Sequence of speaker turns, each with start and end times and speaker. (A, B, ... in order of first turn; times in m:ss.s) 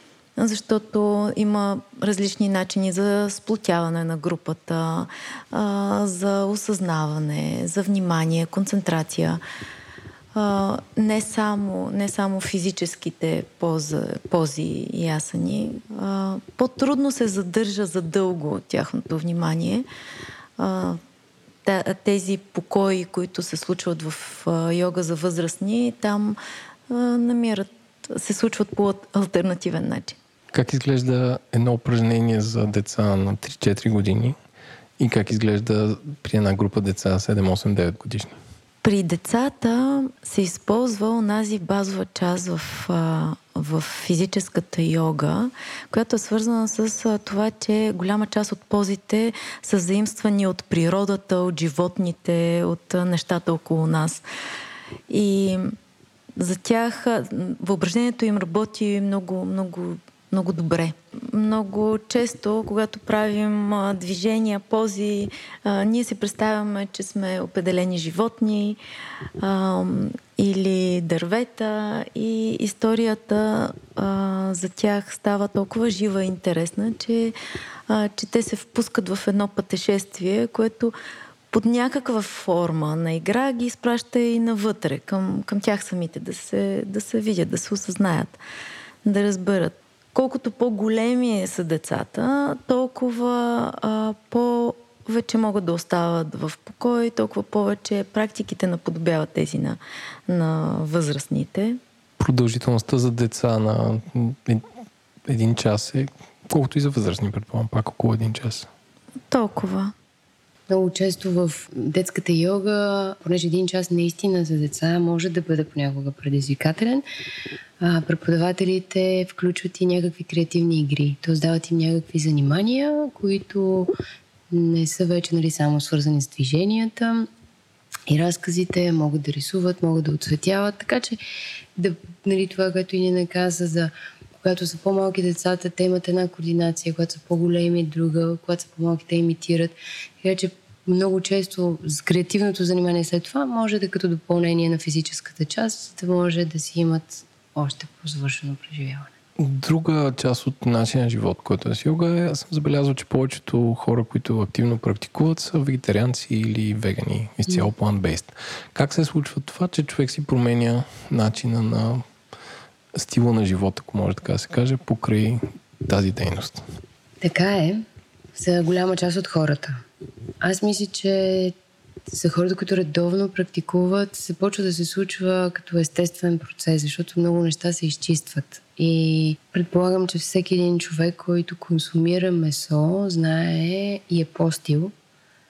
0:00.4-0:09.4 A
0:10.4-0:19.9 A
0:20.6-0:21.0 A
0:21.6-0:26.4 A
0:26.9-0:30.2 A
0:30.5-0:34.4 B
0:35.0-0:38.4 B
0:38.8-0:54.2 A
0:55.1-0:55.8 A
0:56.4-1:08.8 A
1:09.4-1:17.4 A
1:17.9-1:20.9 A
1:21.5-1:28.4 A
1:29.0-1:41.8 A
1:42.2-1:44.7 B
1:45.3-1:48.7 B
1:49.3-1:49.9 A
1:50.7-1:57.0 C
1:57.8-2:04.0 C
2:04.5-2:07.3 C
2:08.1-2:11.2 C
2:11.8-2:29.1 C
2:29.4-2:42.0 B
2:43.0-2:46.6 B
2:47.2-2:47.8 C
2:48.3-2:49.8 C
2:50.4-2:51.6 C
2:52.1-3:04.9 C